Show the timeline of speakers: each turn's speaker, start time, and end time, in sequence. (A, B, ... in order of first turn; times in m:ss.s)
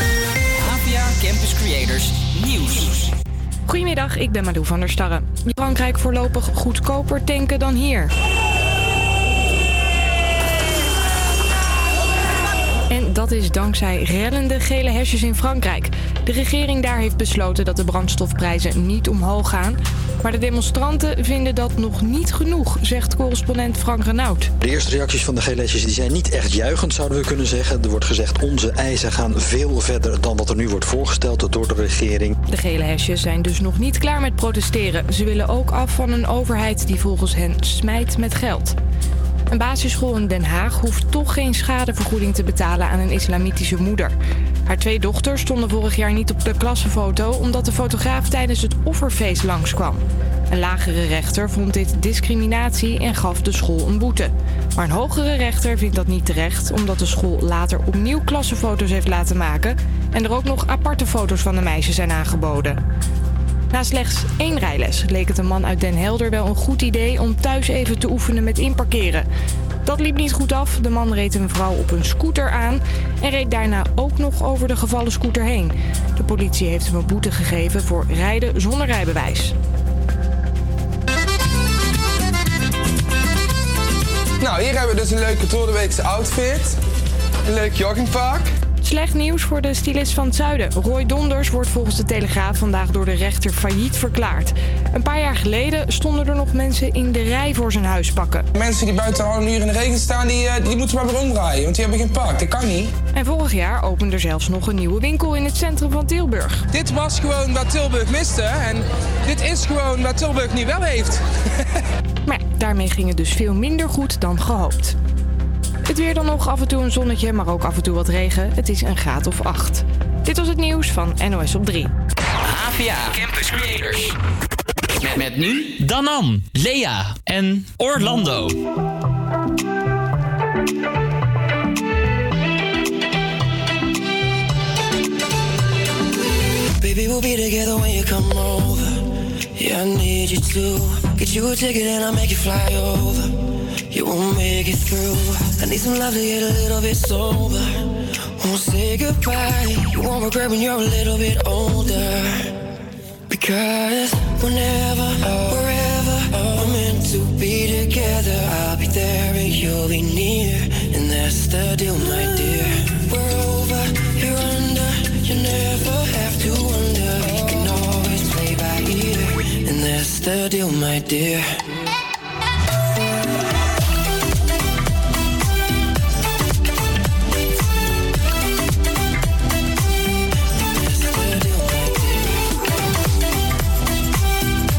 0:00.6-0:03.1 A
0:03.7-0:08.1 B
0:12.9-0:24.5 B
0:24.6-0:32.3 C
0:32.5-0:38.8 B
0:39.5-0:44.1 B
0:44.6-1:02.8 B
1:03.7-1:09.3 B
1:09.8-1:19.5 B
1:24.4-1:26.8 D
1:27.4-1:28.5 D
1:28.8-1:38.5 B
1:38.5-1:42.9 D
1:43.1-1:46.7 B
1:46.7-1:51.2 D
1:52.2-1:55.0 B
1:55.8-2:01.9 B
2:02.5-2:04.1 A
2:05.0-2:08.6 A
2:16.8-2:32.5 E
2:33.3-2:51.6 E
3:00.5-3:02.4 E